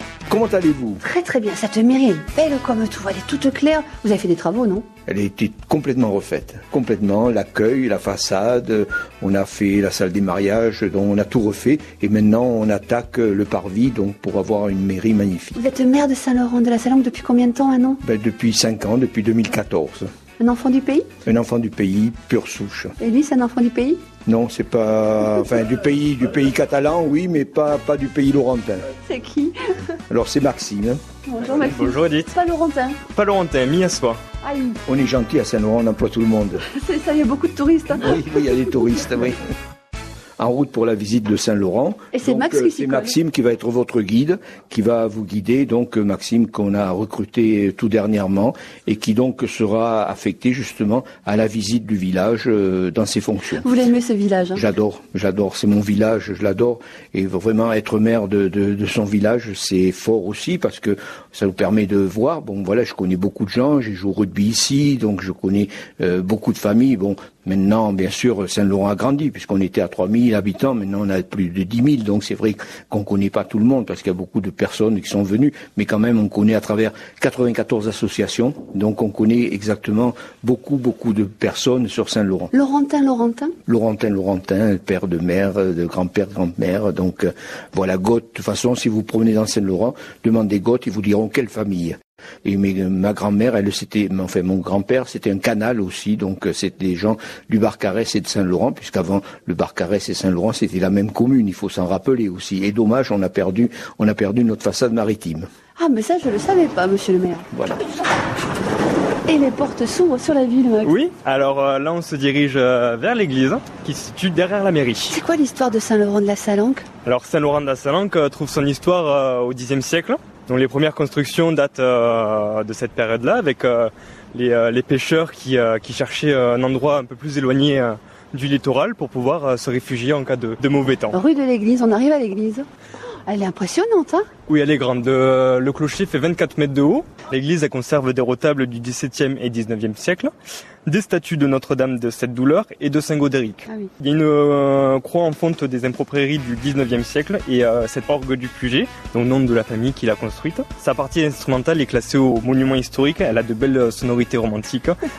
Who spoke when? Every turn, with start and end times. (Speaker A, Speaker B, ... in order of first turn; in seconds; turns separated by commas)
Speaker A: 0.3-1.0, Speaker B: 1.0-4.9, Speaker A: 5.1-15.6, Speaker B: 15.6-18.0, Speaker A: 18.0-20.1, Speaker B: 20.4-21.1, Speaker A: 21.2-22.9, Speaker B: 23.0-24.1, Speaker A: 24.3-28.9, Speaker B: 29.0-29.7, Speaker A: 30.1-31.0, Speaker B: 31.3-33.0, Speaker C: 31.5-32.3, Speaker C: 33.1-34.2, Speaker B: 34.4-34.8, Speaker A: 34.9-36.6, Speaker B: 36.6-38.6, Speaker A: 38.0-39.4, Speaker A: 40.4-53.7, Speaker B: 42.1-43.2, Speaker B: 53.6-54.6, Speaker A: 54.5-82.5, Speaker B: 82.5-83.5, Speaker A: 83.7-105.5, Speaker B: 105.8-107.5, Speaker A: 107.5-107.8, Speaker B: 109.3-111.0, Speaker C: 110.8-115.2, Speaker B: 115.1-116.9, Speaker C: 117.0-131.2, Speaker B: 131.1-132.7, Speaker B: 133.3-134.3, Speaker C: 134.5-140.3, Speaker C: 140.9-155.0